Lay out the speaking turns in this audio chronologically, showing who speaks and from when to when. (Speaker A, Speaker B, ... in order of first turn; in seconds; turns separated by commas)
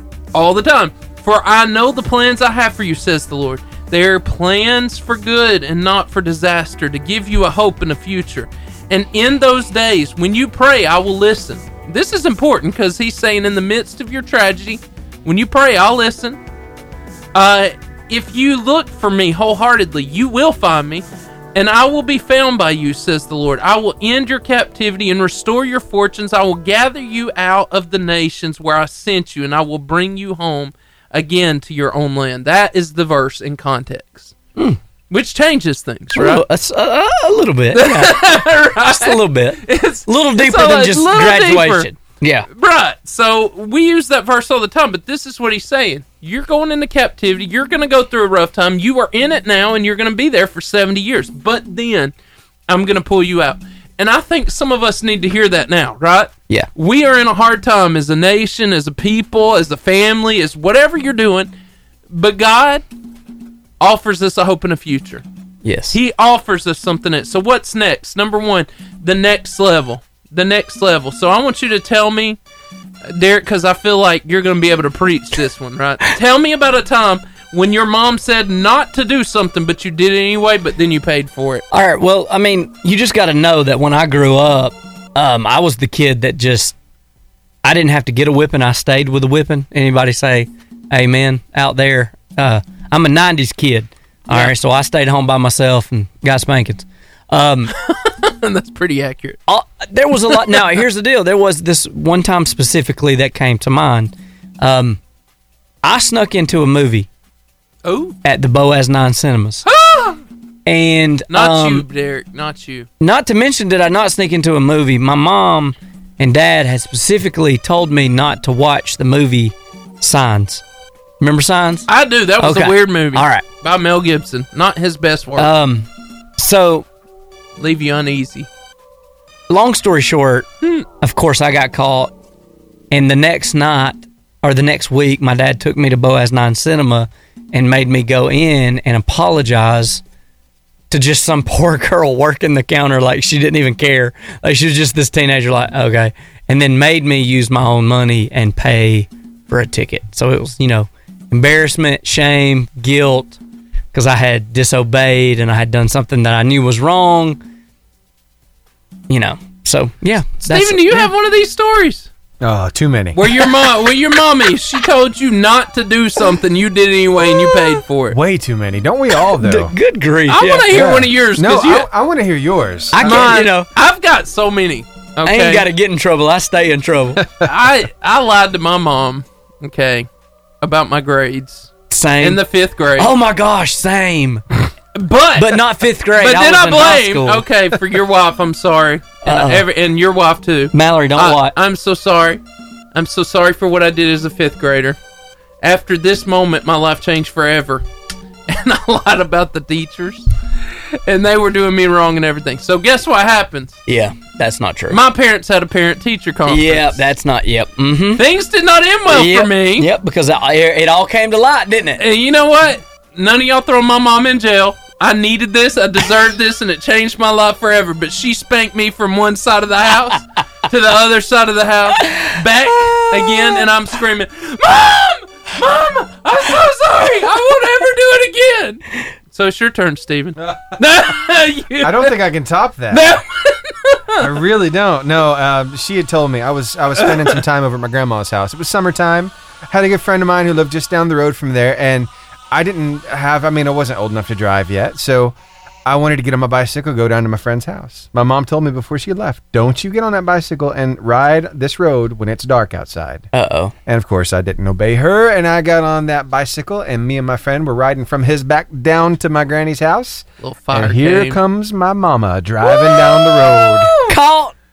Speaker A: 0.3-16.4, Speaker A: 17.3-34.4, Speaker A: 35.1-36.4, Speaker B: 36.1-42.5, Speaker A: 37.7-41.9, Speaker A: 42.5-52.1, Speaker A: 52.7-61.5, Speaker A: 62.1-62.8, Speaker A: 63.8-65.2, Speaker B: 65.6-66.0, Speaker A: 65.9-72.4, Speaker A: 73.1-81.6, Speaker B: 81.7-86.8, Speaker B: 87.6-97.7, Speaker A: 97.7-99.4, Speaker B: 99.5-105.0, Speaker A: 100.3-100.8, Speaker B: 105.8-107.1, Speaker A: 107.8-108.2, Speaker B: 108.2-109.7, Speaker A: 109.7-110.2, Speaker B: 110.7-111.9, Speaker A: 111.3-112.9, Speaker B: 113.0-120.6, Speaker B: 121.2-121.9, Speaker A: 121.9-125.5, Speaker B: 122.4-123.5, Speaker B: 125.4-126.9, Speaker A: 127.6-128.5, Speaker B: 129.5-130.5, Speaker B: 131.0-132.1, Speaker B: 132.9-140.0, Speaker B: 140.9-153.4, Speaker B: 153.9-157.4, Speaker B: 159.1-161.1, Speaker A: 160.4-162.1, Speaker C: 162.4-163.5, Speaker A: 163.2-168.2, Speaker C: 168.1-169.7, Speaker B: 169.2-170.8, Speaker A: 170.3-171.9, Speaker C: 170.7-173.4, Speaker B: 172.9-173.7, Speaker A: 173.0-175.7, Speaker B: 175.2-177.2, Speaker A: 177.4-180.1, Speaker A: 180.6-183.1, Speaker B: 181.9-182.4, Speaker B: 182.9-184.4, Speaker A: 184.9-185.6, Speaker B: 185.4-187.5, Speaker A: 186.2-192.4, Speaker B: 189.2-189.7, Speaker B: 190.7-191.6, Speaker A: 192.9-195.0, Speaker A: 195.6-197.8, Speaker A: 198.5-203.8, Speaker B: 203.9-205.0, Speaker A: 204.9-207.1, Speaker B: 206.5-208.3, Speaker A: 208.2-209.9, Speaker B: 209.1-212.1, Speaker A: 212.0-232.2, Speaker B: 222.9-223.7, Speaker C: 230.4-230.8, Speaker C: 231.8-233.2, Speaker A: 232.9-234.2, Speaker C: 234.2-253.3, Speaker A: 237.0-237.4, Speaker B: 253.3-253.7, Speaker C: 253.9-264.0, Speaker A: 260.4-261.4, Speaker B: 262.6-264.6